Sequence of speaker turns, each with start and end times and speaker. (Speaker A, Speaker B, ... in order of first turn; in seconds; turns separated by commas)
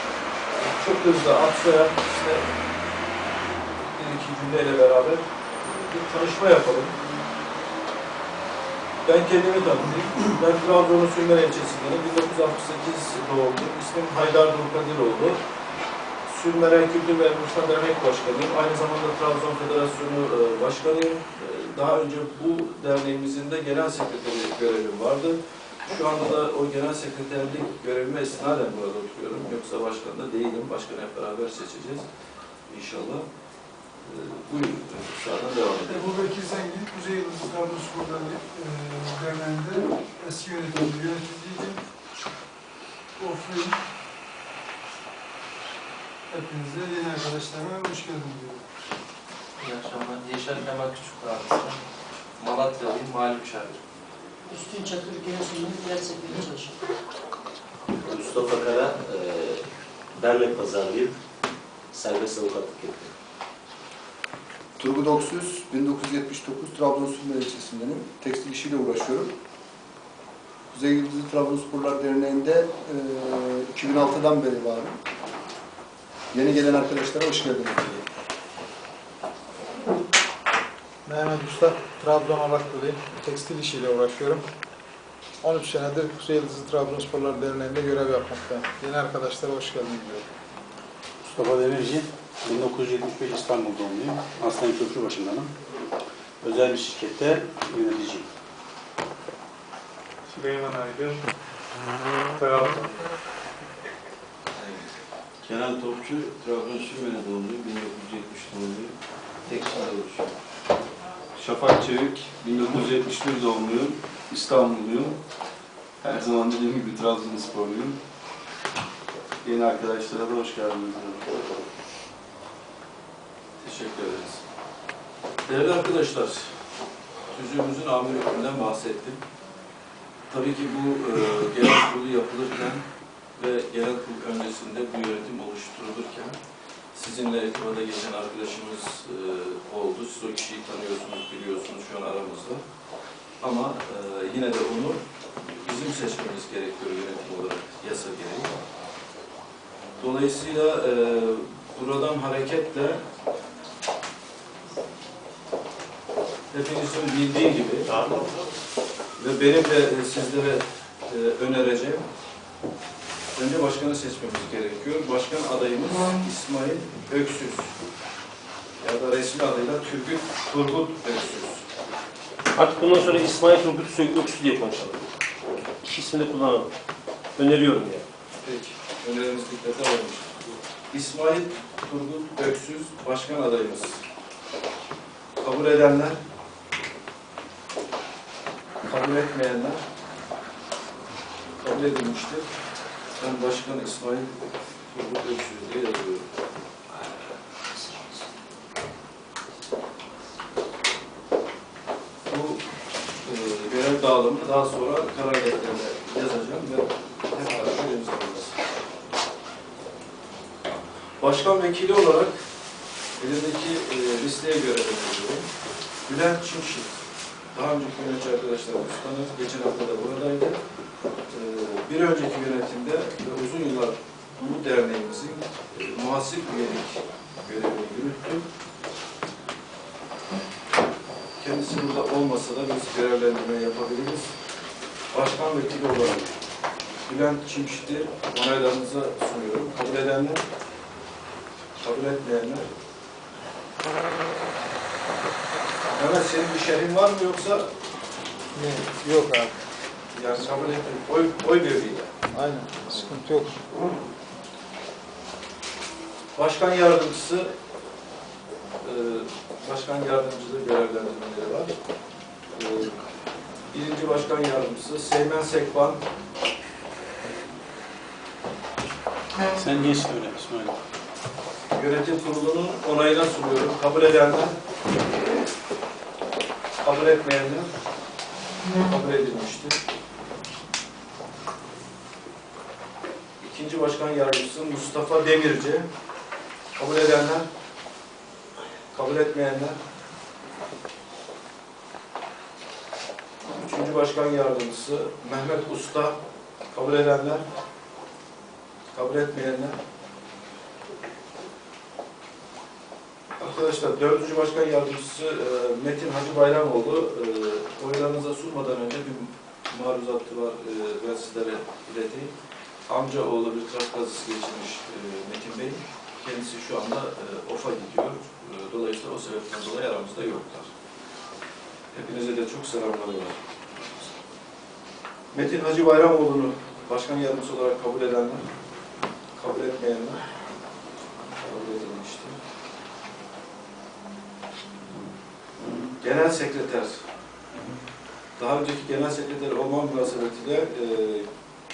Speaker A: 0.6-2.5, Speaker A: 3.8-6.9, Speaker A: 9.0-15.4, Speaker A: 16.3-32.0, Speaker A: 32.7-33.2, Speaker A: 34.0-36.2, Speaker B: 35.8-41.8, Speaker B: 43.2-43.8, Speaker B: 46.3-48.6, Speaker C: 49.6-51.8, Speaker C: 52.4-53.8, Speaker D: 54.5-56.8, Speaker E: 58.0-59.6, Speaker E: 60.1-61.2, Speaker E: 61.9-63.1, Speaker F: 64.8-69.3, Speaker F: 70.7-75.0, Speaker F: 76.3-78.0, Speaker G: 81.1-84.4, Speaker G: 85.4-90.2, Speaker H: 91.2-95.5, Speaker H: 96.4-98.3, Speaker I: 105.4-108.9, Speaker I: 109.5-110.2, Speaker I: 111.4-115.2, Speaker I: 116.0-118.0, Speaker I: 119.4-121.3, Speaker A: 123.6-124.4, Speaker A: 125.5-126.5, Speaker A: 127.3-129.2, Speaker A: 130.3-132.8, Speaker A: 133.4-136.4, Speaker A: 136.9-142.6, Speaker A: 143.4-145.0, Speaker A: 145.6-148.6, Speaker A: 150.0-153.0, Speaker A: 156.5-158.1, Speaker A: 159.2-162.0, Speaker A: 163.3-167.7, Speaker A: 168.8-171.6, Speaker J: 172.5-175.0, Speaker J: 175.8-176.7, Speaker J: 177.3-178.0, Speaker A: 178.4-180.3, Speaker A: 180.9-184.0, Speaker A: 185.4-186.2, Speaker A: 188.8-189.8, Speaker A: 191.6-192.4, Speaker A: 193.2-194.3, Speaker A: 194.9-196.2, Speaker A: 202.2-202.6, Speaker A: 203.2-208.6, Speaker A: 211.2-212.3, Speaker A: 213.2-215.5, Speaker A: 216.1-217.0, Speaker A: 217.5-220.6, Speaker A: 221.3-228.4, Speaker A: 231.4-234.3, Speaker A: 235.1-236.3, Speaker A: 237.1-240.4, Speaker A: 241.8-242.7, Speaker A: 245.9-247.7, Speaker G: 248.6-249.5, Speaker H: 248.7-249.0, Speaker A: 250.1-252.1, Speaker G: 252.3-253.5, Speaker H: 252.7-253.1, Speaker A: 252.8-253.2, Speaker A: 256.4-257.5, Speaker A: 258.8-261.7, Speaker A: 262.6-262.9, Speaker A: 263.7-266.0, Speaker H: 269.5-270.8, Speaker A: 271.7-274.6, Speaker A: 276.8-277.7, Speaker A: 278.9-279.8, Speaker A: 283.4-285.9, Speaker A: 286.8-287.5, Speaker A: 288.9-289.8, Speaker A: 293.5-296.2, Speaker A: 296.7-297.4, Speaker A: 298.9-299.8, Speaker A: 303.4-312.3, Speaker A: 312.9-320.7, Speaker A: 321.9-323.4, Speaker A: 325.3-328.4, Speaker A: 329.4-330.2, Speaker A: 331.4-332.4, Speaker A: 336.0-337.0, Speaker A: 338.4-341.3